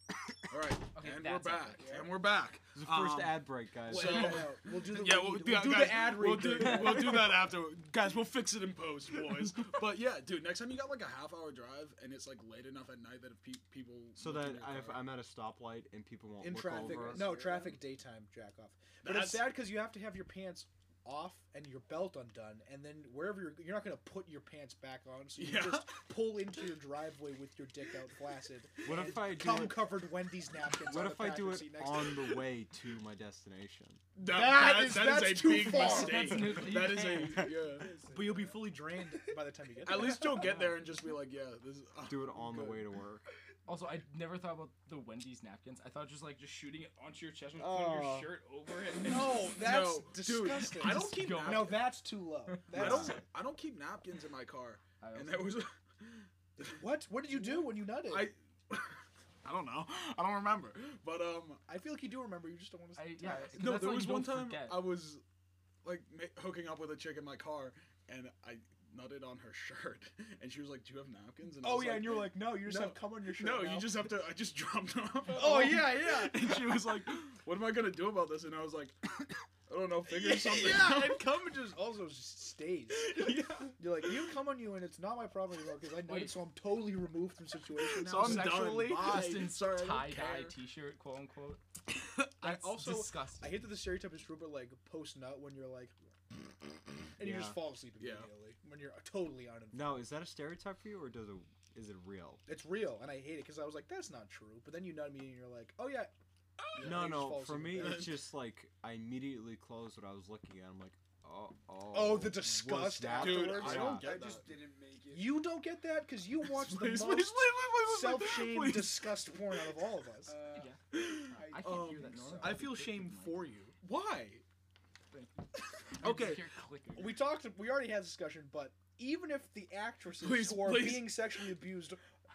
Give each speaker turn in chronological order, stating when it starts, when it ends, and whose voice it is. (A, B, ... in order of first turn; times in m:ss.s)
0:00.5-0:15.1 A
0:00.9-0:02.1 B
0:01.8-0:02.2 C
0:02.7-0:04.6 D
0:03.9-0:07.4 E
0:06.6-0:07.1 B
0:14.2-0:17.4 D
0:16.4-0:32.5 E
0:16.8-0:17.7 C
0:19.0-0:19.5 A
0:25.4-0:26.0 A
0:28.8-0:30.0 D
0:30.7-0:34.0 D
0:34.1-0:37.9 A
0:34.2-0:36.7 E
0:35.8-0:37.6 B
0:37.5-0:38.8 C
0:38.1-0:40.6 E
0:39.8-0:42.8 A
0:42.0-0:43.3 D
0:43.6-0:49.6 B
0:47.6-0:48.3 D
0:49.0-0:53.2 E
0:49.0-0:51.9 A
0:50.8-0:52.6 B
0:52.7-0:56.7 A
0:52.7-0:53.2 D
0:55.0-0:55.6 B
0:56.6-0:58.3 E
0:57.4-1:01.6 A
1:01.7-1:03.9 E
1:02.9-1:04.9 B
1:03.2-1:05.2 A
1:05.8-1:21.2 A
1:11.6-1:14.2 E
1:15.3-1:16.9 E
1:20.1-1:29.4 E
1:22.9-1:24.1 A
1:26.0-1:26.4 B
1:27.8-1:30.5 A
1:28.2-1:31.6 B
1:32.4-1:33.7 B
1:32.4-1:35.9 E
1:37.2-1:40.0 E
1:37.2-1:37.6 D
1:38.0-1:38.3 A
1:39.7-1:42.4 D
1:42.4-1:46.1 E
1:46.6-1:48.2 A
1:46.7-1:48.2 E
1:46.8-1:54.2 D
1:51.9-1:54.2 E
1:53.0-1:54.6 A
1:53.8-1:55.5 C
1:55.1-2:00.4 E
1:56.4-1:59.8 A
2:00.2-2:02.7 C
2:00.5-2:03.4 B
2:00.9-2:02.6 A
2:02.4-2:03.8 E
2:03.8-2:04.4 A
2:05.1-2:06.4 A
2:06.0-2:07.3 B
2:06.0-2:06.4 E
2:06.9-2:12.0 E
2:10.2-2:11.5 A